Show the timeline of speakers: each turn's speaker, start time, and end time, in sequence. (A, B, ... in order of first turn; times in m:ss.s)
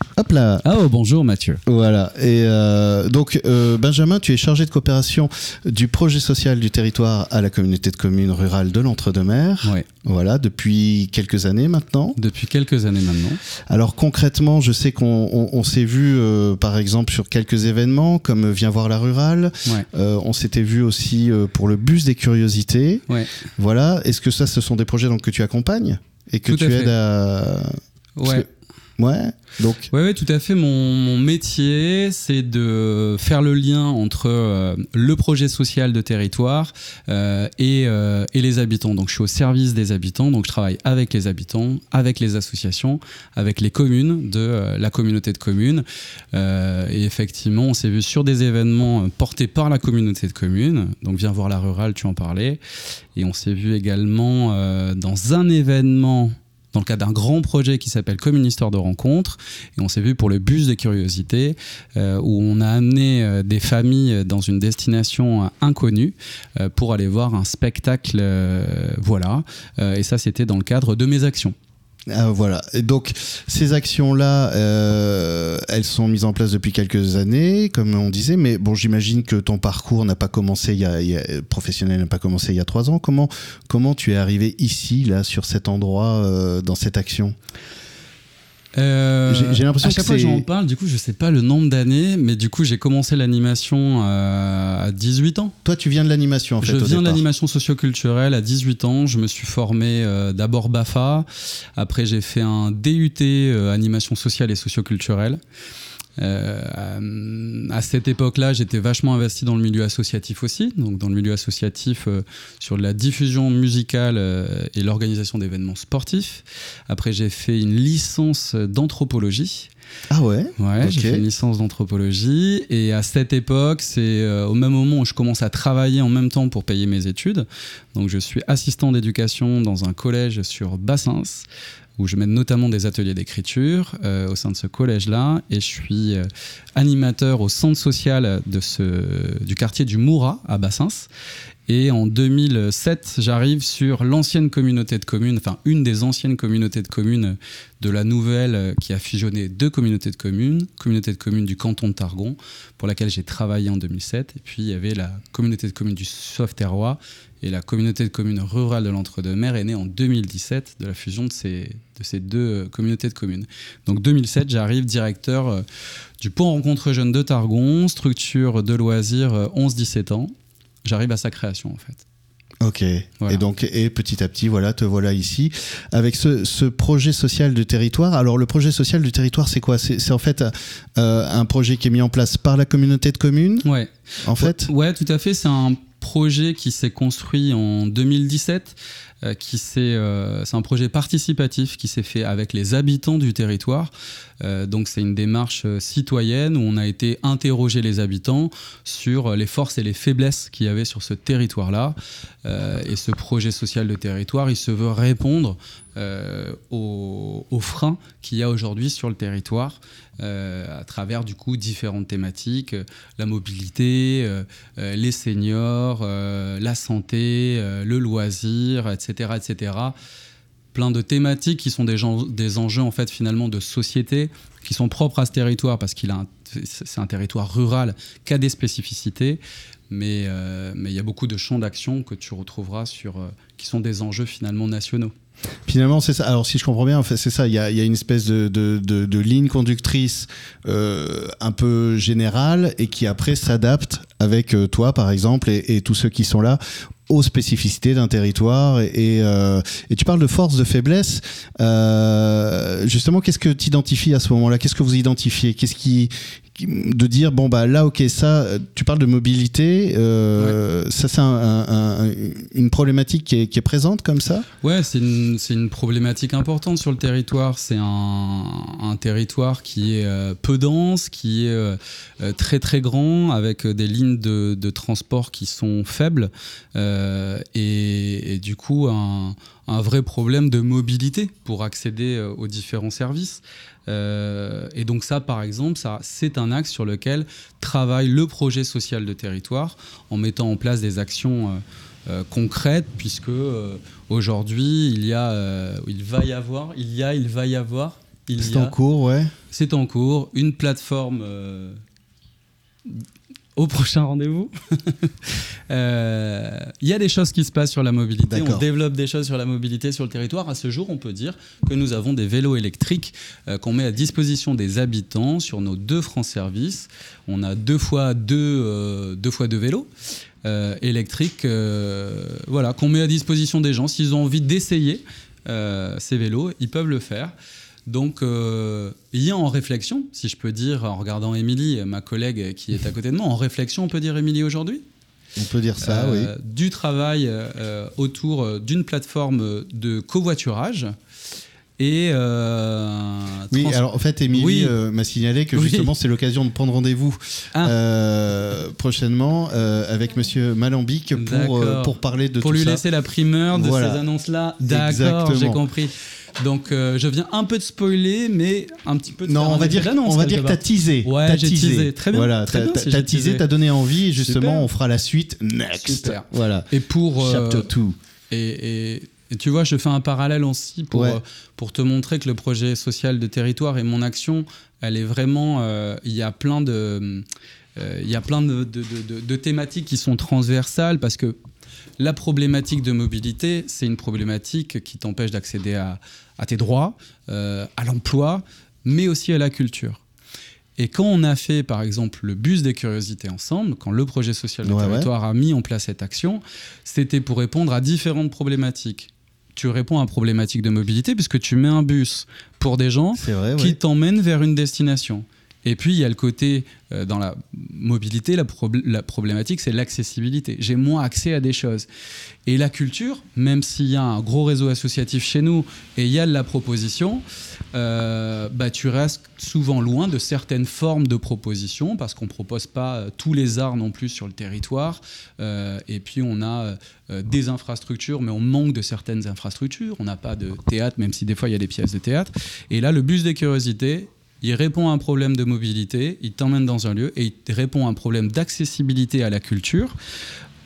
0:00.2-0:00.7 A
0:00.6-0:01.6 B
0:01.7-0:12.2 A
0:12.2-0:13.4 B
0:13.7-0:23.0 A
0:23.6-0:28.5 A
0:26.5-0:26.9 B
0:28.2-0:28.5 B
0:29.0-0:29.9 A
0:29.9-0:52.6 B
0:53.2-1:11.6 B
1:12.1-1:27.4 A
1:28.8-1:35.6 B
1:29.3-1:30.4 A
1:35.6-1:37.2 A
1:36.6-1:45.4 B
1:46.2-1:59.7 B
2:00.1-2:01.2 A
2:00.6-2:11.5 B
2:12.0-2:21.1 B
2:21.7-2:45.6 B
2:46.2-2:50.3 B
2:50.8-2:52.0 B
2:52.6-3:03.7 A
3:03.6-3:40.0 B
3:04.2-3:04.7 A
3:40.7-3:55.1 B
3:55.7-4:24.5 A
4:24.6-4:58.8 B
4:58.4-4:59.3 A
4:59.5-5:01.8 B
5:03.6-5:19.9 B
5:08.3-5:08.6 A
5:20.4-5:27.3 B
5:27.9-5:34.8 B
5:35.4-5:36.3 A
5:35.8-5:40.9 B
5:41.8-5:43.8 B
5:43.5-5:52.8 A
5:44.3-5:44.8 B
5:45.6-5:45.9 B
5:51.2-6:03.5 B
5:53.5-5:54.0 A
5:54.6-5:55.6 A
5:59.3-6:08.0 A
6:04.1-6:04.7 B
6:05.8-6:07.7 B
6:08.3-6:17.2 B
6:10.9-6:11.2 A
6:17.8-6:21.4 B
6:22.0-6:30.0 B
6:30.8-6:51.9 B
6:34.6-6:35.1 A
6:43.2-6:43.8 A
6:52.5-7:20.0 B